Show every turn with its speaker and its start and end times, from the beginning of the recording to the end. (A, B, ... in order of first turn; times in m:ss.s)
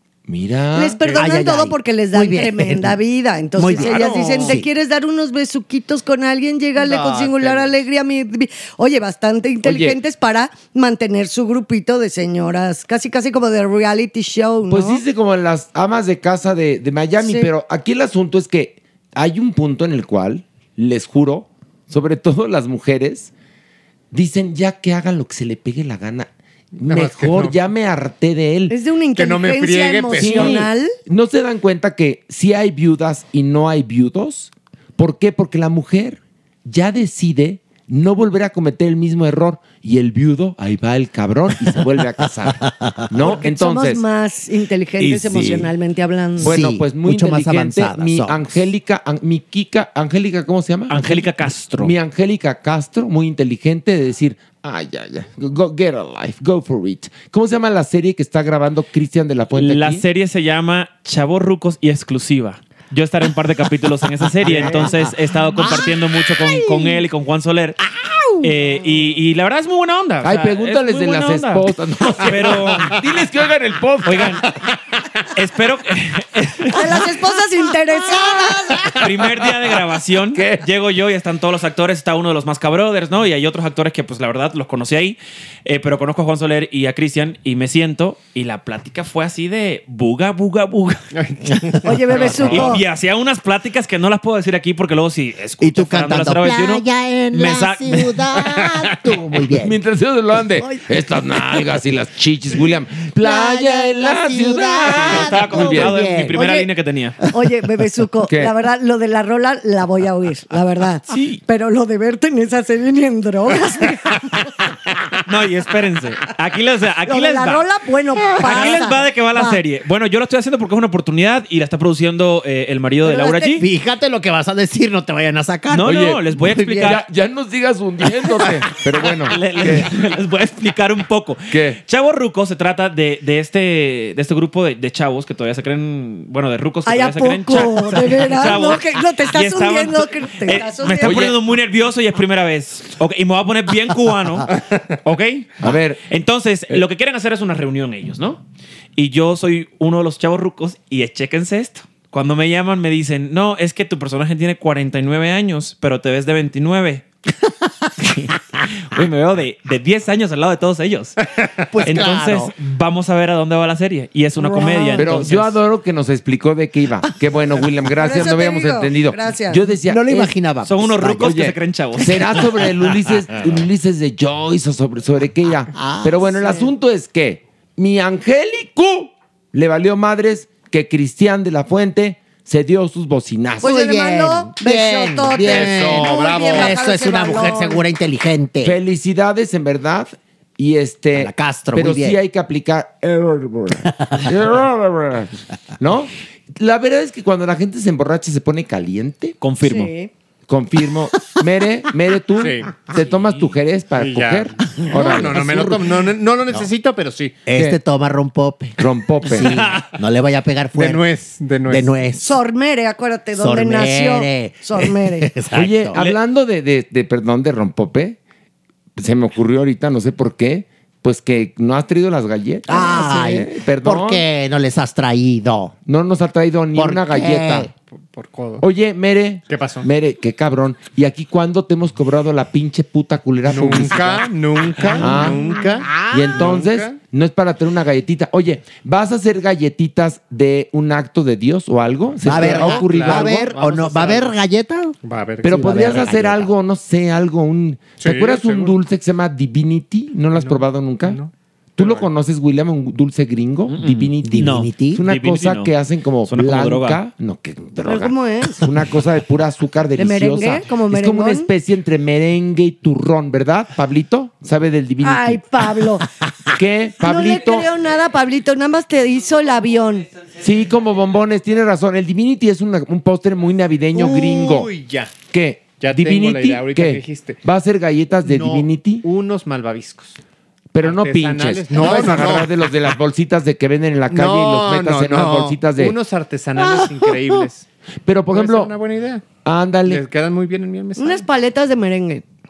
0:00.3-0:01.2 A
0:00.7-0:15.0 B
0:01.2-0:03.0 C
0:03.6-0:04.7 C
0:06.8-0:07.7 D
0:09.6-0:10.0 A
0:14.7-0:23.3 A
0:17.2-0:17.5 B
0:24.1-0:28.8 A
0:26.8-0:27.6 D
0:28.7-0:30.9 B
0:29.2-0:30.7 D
0:30.1-0:44.0 A
0:41.6-0:43.2 C
0:43.2-0:46.6 B
0:45.0-0:45.7 C
0:46.4-0:48.6 C
0:46.4-0:51.3 A
0:50.9-0:51.9 E
0:51.8-1:00.0 A
0:59.5-1:07.8 E
1:04.4-1:05.0 A
1:04.6-1:07.0 C
1:08.1-1:08.5 C
1:08.4-1:13.0 E
1:10.2-1:14.4 A
1:14.0-1:14.5 E
1:15.3-1:17.0 E
1:16.7-1:18.9 B
1:19.0-1:31.1 E
1:20.3-1:20.6 A
1:31.2-1:32.7 D
1:31.8-1:32.8 B
1:32.4-1:38.4 E
1:35.6-1:39.8 C
1:38.6-1:38.9 D
1:39.5-1:46.0 A
1:41.4-1:41.7 C
1:43.2-1:46.5 C
1:44.9-1:47.2 E
1:46.3-1:46.7 B
1:47.3-1:54.4 B
1:48.2-1:48.5 A
1:51.1-1:51.4 E
1:55.2-1:57.6 E
1:57.1-1:59.6 B
1:58.3-1:59.0 C
1:58.4-2:03.6 E
2:03.0-2:03.6 B
2:03.5-2:07.0 C
2:05.7-2:07.0 E
2:05.8-2:09.9 A
2:08.1-2:08.6 C
2:09.2-2:28.4 E
2:11.5-2:11.8 A
2:16.8-2:21.2 B
2:21.0-2:21.4 A
2:25.6-2:26.0 A
2:29.0-2:37.0 E
2:38.9-2:41.2 E
2:41.7-2:42.5 C
2:41.8-2:45.5 E
2:44.4-2:45.2 C
2:44.6-2:45.0 B
2:44.9-2:50.4 A
2:48.0-2:49.7 B
2:49.8-2:51.4 C
2:50.6-2:52.6 E
2:51.0-3:03.7 A
2:52.4-2:53.5 C
2:55.7-2:56.7 C
3:03.6-3:07.8 B
3:03.6-3:08.8 C
3:05.4-3:07.5 D
3:08.6-3:19.4 A
3:11.1-3:12.2 C
3:13.9-3:14.3 C
3:19.4-3:19.9 E
3:19.6-3:20.1 B
3:20.5-3:25.9 A
3:22.4-3:22.7 D
3:24.0-3:27.4 D
3:24.6-3:25.3 C
3:27.5-3:31.0 C
3:27.5-3:27.8 A
3:28.8-3:29.7 A
3:30.7-3:32.0 D
3:31.7-3:32.4 C
3:32.2-3:35.3 B
3:33.4-3:36.2 C
3:35.5-3:38.2 A
3:39.0-3:44.2 A
3:42.7-3:45.7 C
3:45.8-3:47.7 A
3:46.7-3:47.7 C
3:48.0-3:48.6 D
3:48.6-3:54.3 A
3:49.5-3:49.9 D
3:53.5-3:57.0 D
3:54.8-3:55.4 A
3:55.0-3:56.4 C
3:56.1-4:03.5 A
4:02.2-4:04.4 D
4:02.2-4:06.5 C
4:05.0-4:06.1 D
4:05.4-4:11.2 A
4:08.0-4:08.8 D
4:10.3-4:12.1 D
4:11.8-4:25.4 A
4:13.7-4:15.7 E
4:14.2-4:15.0 C
4:16.2-4:17.0 E
4:17.9-4:18.6 B
4:20.0-4:21.5 B
4:25.0-4:26.0 B
4:26.5-4:27.7 A
4:27.0-4:30.1 B
4:30.4-4:34.7 A
4:33.9-4:35.1 D
4:35.3-4:39.0 A
4:35.8-4:37.4 D
4:38.2-4:40.2 D
4:40.7-4:46.0 A
4:40.8-4:42.7 D
4:41.8-4:42.2 B
4:44.1-4:47.6 D
4:46.7-4:47.1 C
4:48.0-4:48.7 A
4:48.3-4:49.2 D
4:49.4-4:50.0 A
4:49.8-4:51.2 D
4:51.0-4:52.2 B